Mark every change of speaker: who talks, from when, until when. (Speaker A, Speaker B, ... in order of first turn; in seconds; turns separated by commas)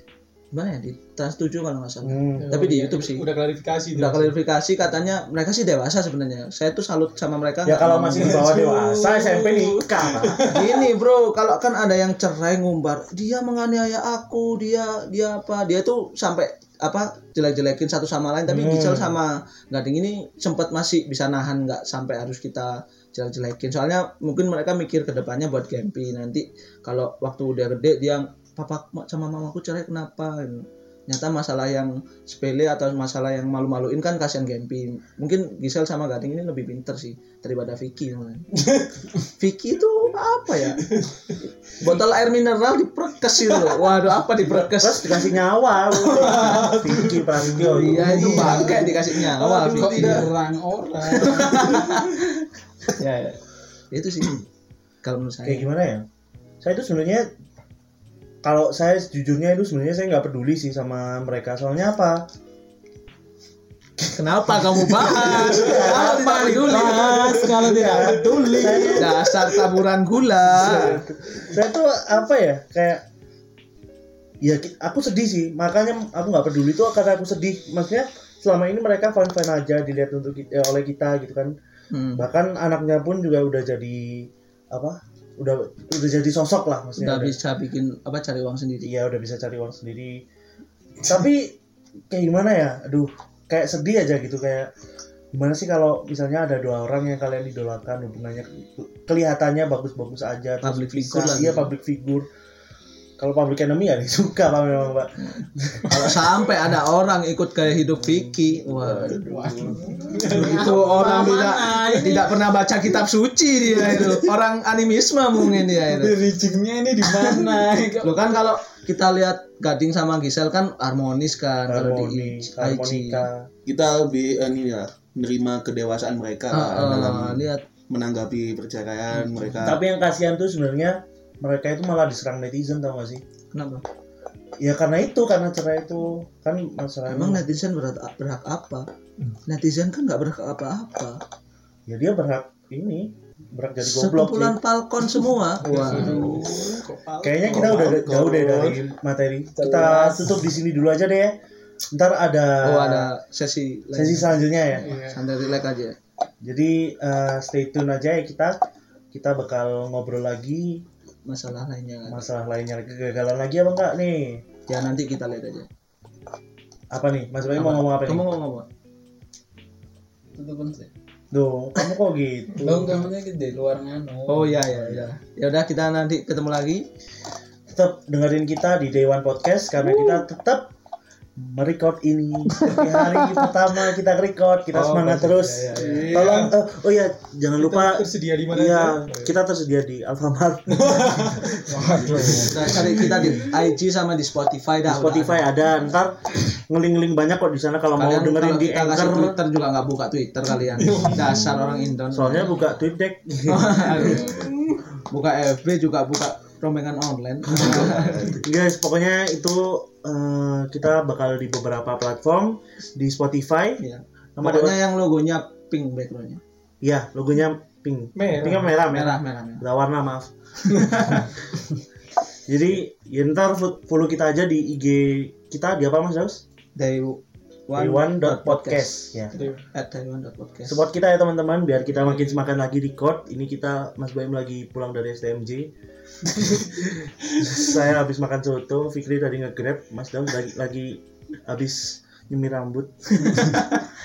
Speaker A: 0.5-3.2, Speaker B: 2.0-2.6, Speaker C: 2.4-4.4, Speaker A: 3.9-8.5, Speaker B: 7.7-10.4, Speaker C: 8.2-8.5, Speaker D: 8.4-9.9, Speaker C: 10.1-10.8, Speaker A: 10.4-38.5, Speaker B: 18.5-19.2, Speaker A: 39.4-41.0, Speaker C: 40.9-41.3, Speaker A: 41.8-45.2, Speaker B: 44.7-48.7, Speaker C: 46.0-50.3, Speaker A: 46.1-46.5, Speaker A: 47.4-50.3, Speaker D: 48.0-49.0, Speaker D: 49.6-52.0, Speaker A: 51.1-52.2, Speaker A: 52.9-53.4, Speaker A: 53.9-54.4, Speaker A: 55.0-55.7, Speaker B: 55.4-56.0, Speaker B: 56.6-57.3, Speaker B: 58.4-62.2, Speaker A: 64.1-67.3, Speaker B: 65.0-69.2, Speaker D: 65.2-69.1, Speaker C: 67.1-69.0, Speaker A: 68.9-71.0, Speaker B: 70.5-73.0, Speaker B: 74.4-81.5, Speaker A: 81.9-82.2, Speaker B: 82.2-87.4, Speaker A: 87.0-88.9, Speaker B: 88.8-90.2, Speaker B: 91.0-91.6, Speaker B: 92.1-94.7, Speaker B: 95.3-102.2, Speaker A: 100.6-101.7, Speaker B: 103.2-106.3, Speaker A: 105.3-116.2, Speaker E: 108.8-109.8, Speaker D: 109.2-112.5, Speaker C: 110.0-110.7, Speaker D: 113.9-114.2, Speaker D: 115.7-118.5, Speaker A: 117.2-117.5, Speaker A: 118.0-123.2, Speaker B: 121.7-123.5, Speaker E: 123.7-129.8, Speaker A: 126.5-127.6, Speaker B: 129.6-133.2, Speaker A: 133.5-133.8, Speaker B: 134.6-137.5, Speaker A: 137.1-138.8, Speaker A: 139.4-141.2, Speaker B: 141.9-144.6, Speaker A: 143.8-146.5, Speaker C: 145.6-147.7, Speaker D: 145.6-146.7, Speaker E: 146.2-146.5, Speaker B: 147.2-151.3, Speaker E: 147.4-148.8, Speaker A: 149.6-150.3, Speaker B: 151.9-153.1, Speaker A: 152.6-155.9, Speaker B: 153.9-154.9, Speaker C: 154.9-155.2, Speaker B: 156.4-158.6, Speaker B: 159.1-160.8, Speaker A: 161.2-162.3, Speaker B: 162.1-164.4, Speaker A: 164.7-165.7, Speaker B: 166.9-168.3, Speaker A: 167.5-168.6, Speaker D: 170.3-170.9, Speaker B: 171.3-173.0, Speaker D: 172.6-174.8, Speaker A: 174.3-176.9, Speaker B: 177.7-180.7, Speaker B: 181.4-191.5, Speaker A: 182.7-183.2, Speaker A: 184.7-186.4, Speaker C: 185.7-186.6, Speaker C: 187.6-189.3, Speaker C: 190.7-191.6, Speaker D: 191.7-193.1, Speaker B: 192.0-193.4, Speaker A: 192.2-195.5, Speaker B: 194.8-199.4, Speaker A: 197.9-202.5, Speaker C: 200.8-201.7, Speaker B: 202.1-204.3, Speaker A: 203.5-208.3, Speaker E: 207.5-208.4, Speaker B: 207.6-213.8, Speaker A: 213.8-216.4, Speaker B: 214.4-214.8, Speaker B: 216.8-221.2, Speaker C: 218.1-218.7, Speaker A: 218.7-219.6, Speaker A: 220.6-221.3, Speaker B: 222.5-226.4, Speaker A: 226.8-230.8, Speaker B: 227.8-229.3, Speaker C: 229.3-229.6, Speaker B: 230.7-235.7, Speaker B: 236.3-243.8